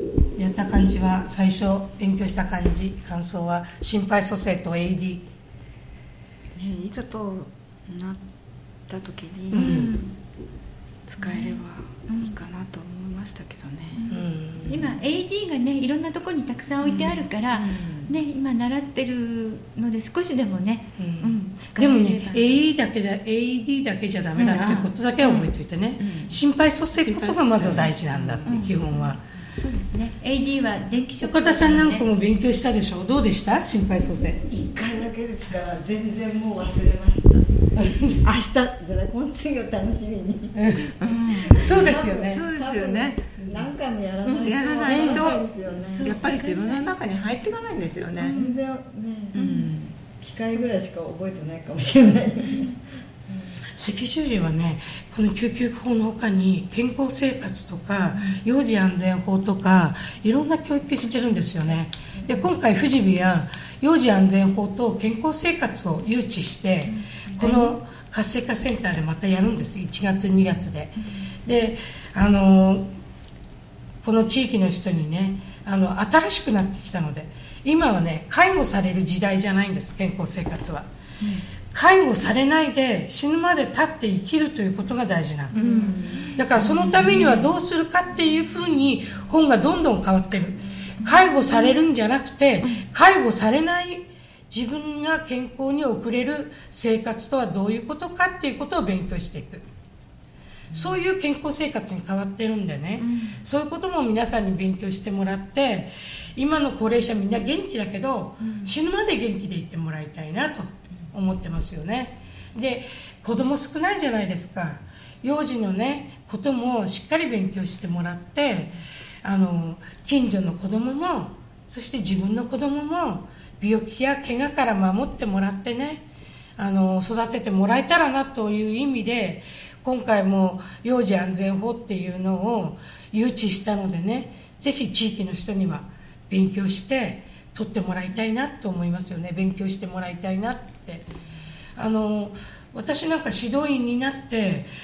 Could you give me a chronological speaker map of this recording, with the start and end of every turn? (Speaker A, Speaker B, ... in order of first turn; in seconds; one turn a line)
Speaker A: 0.4-5.2
Speaker B: 6.5-8.2
Speaker B: 8.9-9.9
Speaker A: 9.5-9.9
Speaker C: 9.5-10.1
Speaker B: 11.1-14.1
Speaker C: 11.2-12.4
Speaker C: 14.0-22.5
Speaker A: 14.1-14.7
Speaker B: 16.9-18.1
Speaker A: 21.0-29.2
Speaker C: 24.4-25.5
Speaker D: 27.0-28.5
Speaker C: 28.4-28.9
Speaker C: 29.6-32.0
Speaker A: 31.2-34.4
Speaker E: 34.5-37.5
Speaker A: 37.8-38.2
Speaker E: 38.2-46.2
Speaker A: 40.6-40.9
Speaker D: 41.0-43.3
Speaker A: 41.6-42.4
Speaker C: 44.2-46.9
Speaker D: 44.4-45.4
Speaker D: 45.9-48.4
Speaker C: 48.2-48.6
Speaker E: 48.2-49.4
Speaker D: 49.3-49.9
Speaker C: 49.4-49.7
Speaker E: 50.0-52.8
Speaker A: 53.8-72.9
Speaker C: 67.3-67.8
Speaker A: 74.0-80.9
Speaker A: 81.7-85.5
Speaker C: 85.5-87.5
Speaker E: 85.5-86.3
Speaker A: 86.4-99.6
Speaker C: 91.0-91.7
Speaker A: 100.7-126.0
Speaker C: 103.0-103.4
Speaker A: 126.6-141.1
Speaker A: 141.8-144.7